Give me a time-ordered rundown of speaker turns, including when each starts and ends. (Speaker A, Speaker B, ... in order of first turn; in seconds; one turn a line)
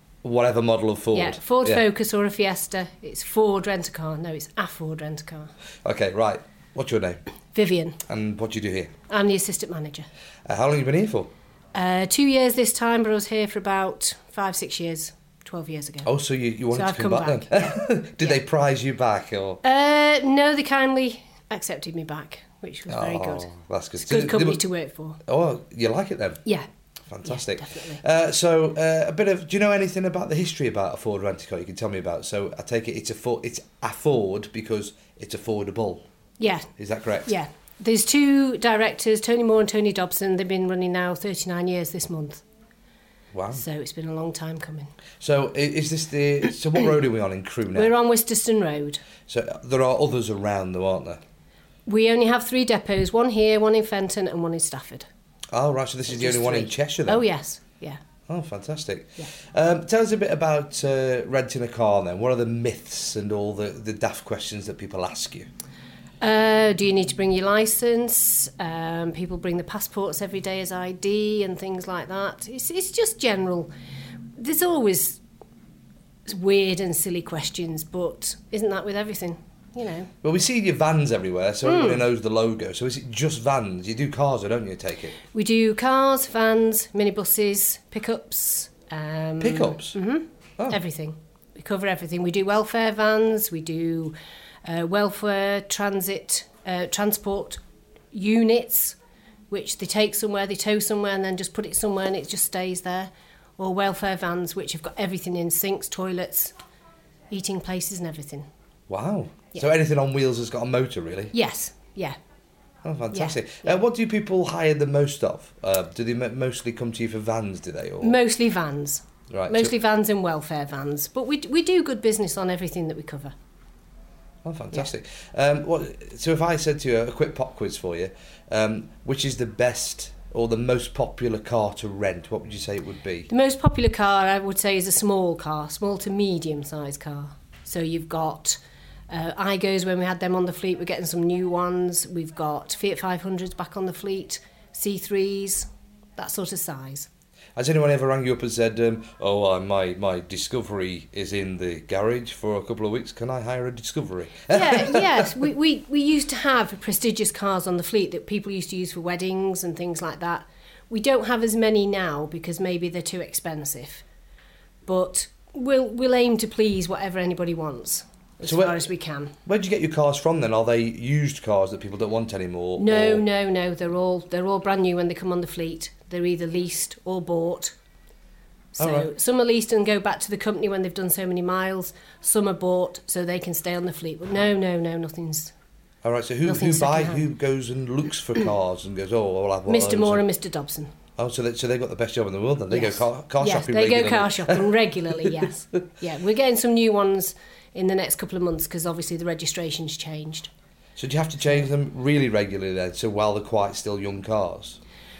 Speaker A: 0.2-1.8
Speaker B: 1.1-5.5
Speaker A: 5.8-7.2
Speaker B: 7.5-8.0
Speaker A: 8.1-8.9
Speaker B: 9.1-10.1
Speaker A: 10.5-11.3
Speaker B: 11.7-16.1
Speaker A: 16.0-19.6
Speaker B: 16.7-18.4
Speaker B: 19.6-25.2
Speaker A: 22.9-24.6
Speaker A: 25.2-26.4
Speaker A: 27.1-36.0
Speaker B: 27.2-28.0
Speaker B: 36.4-36.7
Speaker A: 36.8-37.3
Speaker B: 37.2-42.4
Speaker A: 43.3-43.6
Speaker B: 43.5-44.9
Speaker A: 45.2-47.9
Speaker B: 47.7-49.0
Speaker A: 49.3-51.2
Speaker B: 51.9-55.1
Speaker A: 55.5-57.2
Speaker B: 56.1-58.0
Speaker A: 58.3-65.5
Speaker B: 66.2-73.7
Speaker B: 74.4-75.2
Speaker B: 76.2-80.1
Speaker A: 80.2-85.2
Speaker B: 81.6-82.0
Speaker B: 85.3-97.6
Speaker A: 89.4-89.9
Speaker B: 98.1-99.0
Speaker B: 99.5-106.5
Speaker B: 107.3-108.5
Speaker A: 108.9-111.3
Speaker B: 111.3-112.2
Speaker A: 112.8-118.2
Speaker B: 113.1-113.8
Speaker B: 118.0-123.3
Speaker A: 119.3-119.7
Speaker A: 124.4-133.3
Speaker B: 133.3-138.6
Speaker B: 139.1-147.1
Speaker A: 147.6-155.2
Speaker B: 154.5-164.0
Speaker B: 164.8-169.3
Speaker A: 168.4-168.8
Speaker A: 169.4-173.2
Speaker B: 172.8-177.7
Speaker B: 178.7-185.5
Speaker A: 178.8-179.1
Speaker A: 186.0-190.2
Speaker B: 186.4-187.3
Speaker B: 189.7-190.9
Speaker A: 191.2-194.7
Speaker B: 192.7-200.5
Speaker A: 200.9-204.8